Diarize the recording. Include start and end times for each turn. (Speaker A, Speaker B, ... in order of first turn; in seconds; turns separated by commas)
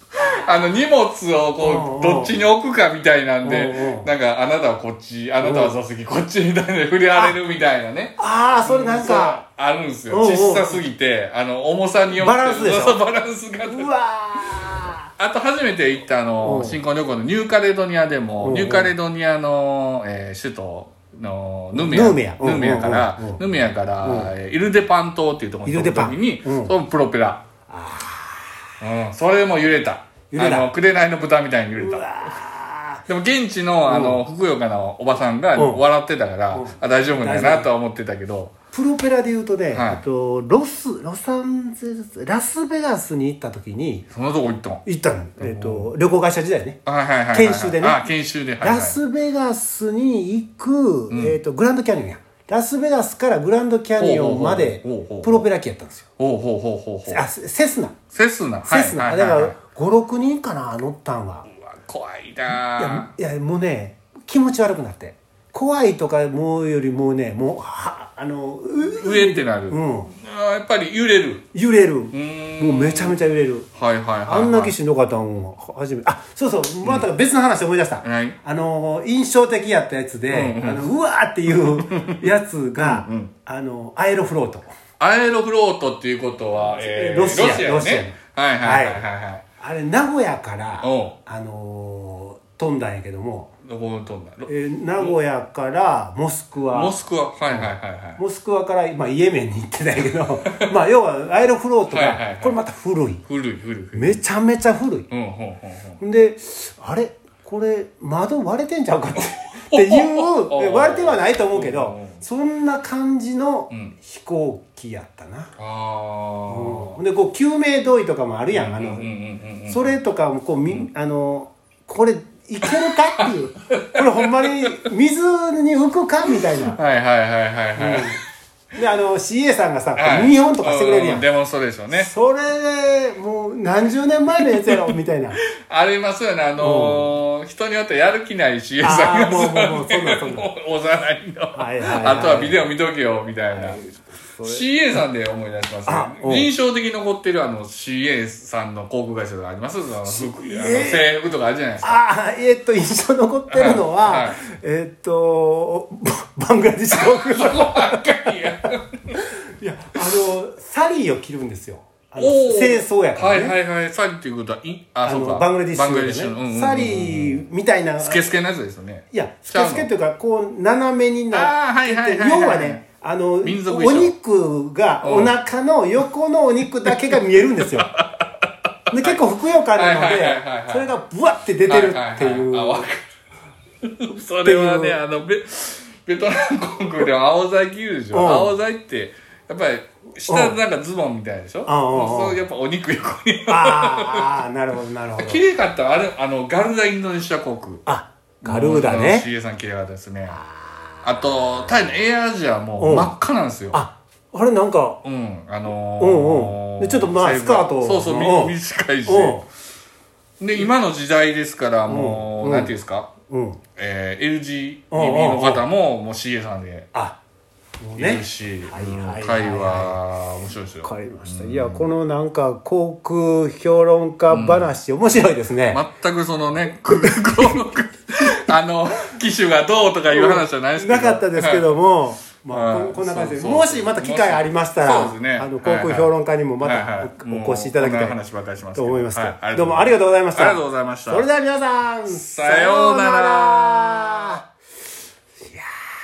Speaker A: 0.2-13.9, Speaker B: 1.6-2.4, Speaker B: 3.4-4.1, Speaker B: 5.4-5.8, Speaker B: 8.2-9.4, Speaker B: 10.1-10.8, Speaker B: 12.1-13.0, Speaker B: 13.7-15.1, Speaker A: 15.2-27.4, Speaker B: 16.4-16.8, Speaker B: 18.4-18.9, Speaker B: 21.7-23.4, Speaker B: 24.0-24.3, Speaker B: 25.6-26.7, Speaker B: 27.7-28.7, Speaker A: 28.8-32.3, Speaker B: 30.3-30.7, Speaker B: 31.8-33.1, Speaker A: 33.1-38.5, Speaker B: 33.9-34.2, Speaker B: 35.5-35.8, Speaker B: 36.5-37.7, Speaker B: 38.7-44.1, Speaker A: 39.7-40.0, Speaker A: 44.1-44.8, Speaker B: 44.9-46.8, Speaker A: 45.4-45.9, Speaker A: 46.9-49.0, Speaker B: 47.3-48.0, Speaker B: 48.6-56.0, Speaker A: 51.1-51.4, Speaker A: 54.0-55.5, Speaker A: 56.2-57.2, Speaker B: 57.1-58.0, Speaker A: 58.1-59.5, Speaker B: 58.6-61.5, Speaker A: 61.5-63.1, Speaker B: 62.5-70.1, Speaker A: 68.9-71.4, Speaker B: 71.5-73.7, Speaker A: 72.1-73.2, Speaker A: 73.8-74.7, Speaker B: 74.2-84.7, Speaker A: 78.0-78.4, Speaker A: 80.3-80.9, Speaker A: 81.6-82.2, Speaker A: 82.8-83.3, Speaker A: 85.0-89.4, Speaker B: 86.7-89.0, Speaker B: 89.6-93.5, Speaker A: 90.8-91.2, Speaker A: 93.7-95.2, Speaker B: 94.5-97.0, Speaker A: 96.7-98.2, Speaker B: 97.5-103.2, Speaker A: 100.4-100.7, Speaker A: 101.9-102.6, Speaker A: 103.3-104.2, Speaker B: 103.9-105.1, Speaker A: 105.1-106.0, Speaker B: 106.0-115.5, Speaker A: 109.2-112.2, Speaker A: 113.7-114.0, Speaker A: 115.6-117.0, Speaker B: 116.5-119.1, Speaker A: 118.5-120.0, Speaker B: 119.7-126.8, Speaker A: 122.6-124.8, Speaker A: 126.7-128.2, Speaker B: 127.8-128.2, Speaker B: 128.7-131.3, Speaker A: 130.0-132.1, Speaker B: 131.9-135.4, Speaker A: 134.3-135.0, Speaker A: 135.6-143.8, Speaker B: 136.6-137.1, Speaker B: 138.8-140.5, Speaker B: 141.5-142.6, Speaker B: 143.5-144.6, Speaker A: 144.4-152.0, Speaker B: 145.9-146.5, Speaker B: 150.0-151.1, Speaker B: 151.8-158.1, Speaker A: 153.5-154.4, Speaker A: 156.9-159.2, Speaker B: 159.1-163.6, Speaker A: 162.2-167.4, Speaker B: 165.0-168.3, Speaker A: 168.0-169.9, Speaker B: 169.1-177.9, Speaker A: 171.3-172.8, Speaker A: 173.4-174.1, Speaker A: 175.0-175.4, Speaker A: 176.8-177.1, Speaker A: 177.7-179.2, Speaker B: 178.9-182.9, Speaker A: 179.7-180.9, Speaker A: 181.7-183.0, Speaker A: 183.8-194.4, Speaker B: 184.4-185.0, Speaker B: 188.1-188.5, Speaker B: 190.3-190.6, Speaker B: 191.7-192.4, Speaker B: 193.5-195.4, Speaker A: 195.2-197.8, Speaker B: 197.9-199.2, Speaker A: 198.4-200.4, Speaker B: 200.3-201.0, Speaker A: 201.0-203.8, Speaker B: 202.8-203.1, Speaker B: 203.7-205.0, Speaker A: 205.0-209.4, Speaker B: 206.0-208.5, Speaker B: 209.1-209.4, Speaker A: 210.4-213.1, Speaker B: 211.9-212.7, Speaker B: 213.3-213.6, Speaker A: 213.8-216.9, Speaker B: 214.9-215.6, Speaker B: 216.9-217.2, Speaker B: 217.8-220.0, Speaker A: 218.0-221.9, Speaker B: 220.8-225.8, Speaker A: 224.3-224.7, Speaker A: 225.7-231.8, Speaker B: 226.9-227.6, Speaker B: 230.1-238.2, Speaker A: 232.5-241.3, Speaker B: 238.8-244.4, Speaker A: 242.1-244.4, Speaker B: 245.4-245.7